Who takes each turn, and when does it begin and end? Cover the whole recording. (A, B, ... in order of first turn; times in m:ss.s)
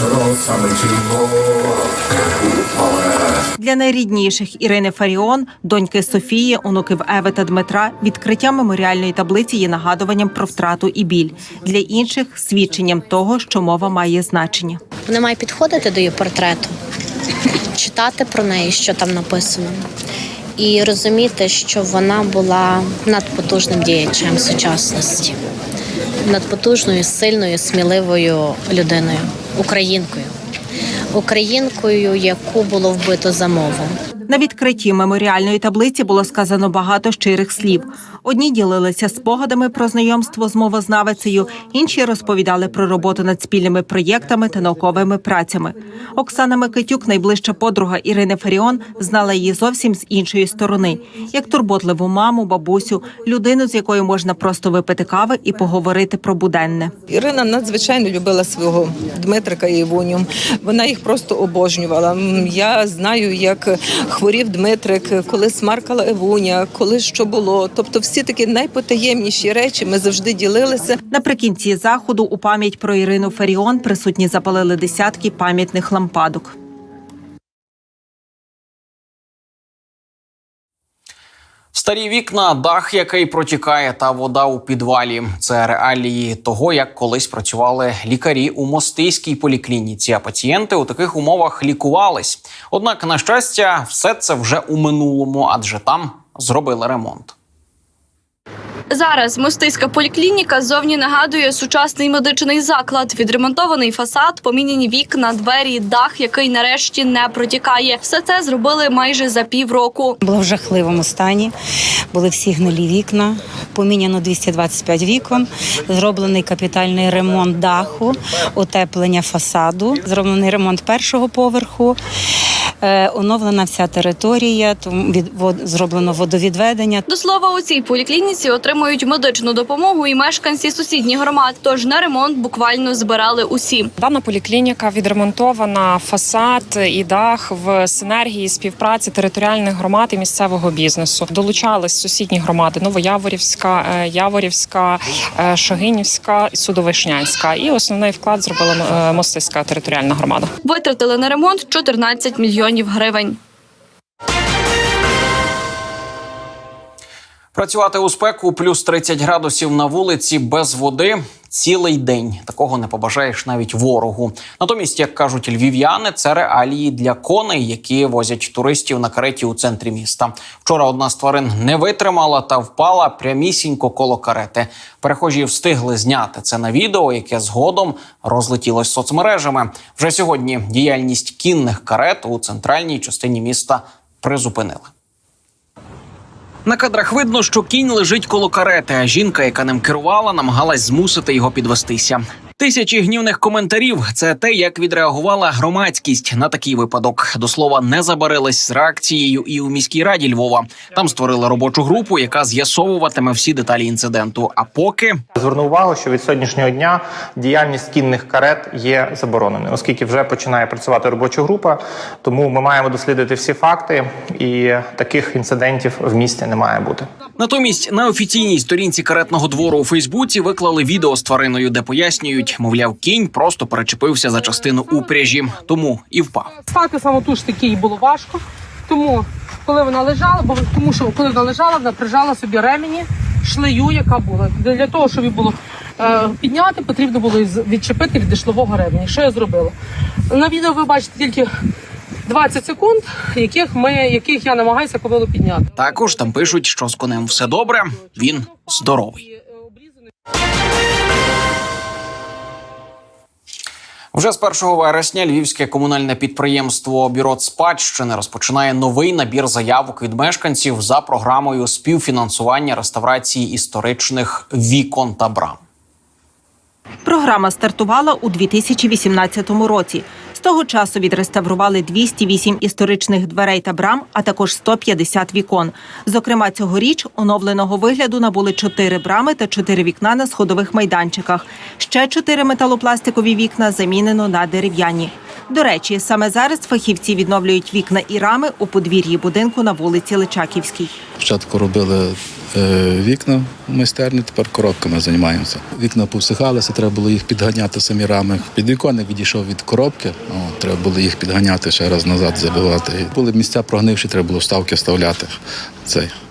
0:03.6-0:14.8 A
0:15.1-0:16.7 B
0:17.8-0:19.8 B
0:20.6-0:25.3 B
0:26.2-0:30.3 B
0:31.1-0:34.0 B
0:34.3-0:57.0 A
0:57.1-1:11.0 C
1:11.1-1:16.5 A
1:21.7-1:37.3 D
1:38.9-1:50.2 E
1:50.3-1:51.5 F
1:52.1-2:02.0 F
2:02.8-2:07.0 F
2:07.1-2:13.9 E
2:14.0-2:30.5 G
2:30.6-2:33.4 E
2:37.5-3:04.9 D
3:06.6-3:25.2 D
3:25.4-3:37.1 H
3:37.4-3:46.5 D
3:46.7-3:59.7 I
3:46.8-3:47.6 G
4:00.3-4:01.5 I
4:02.3-4:05.6 I
4:05.8-4:09.2 D
4:14.1-4:25.6 D
4:27.0-4:50.9 A
4:51.2-5:05.3 J
5:05.8-5:06.1 J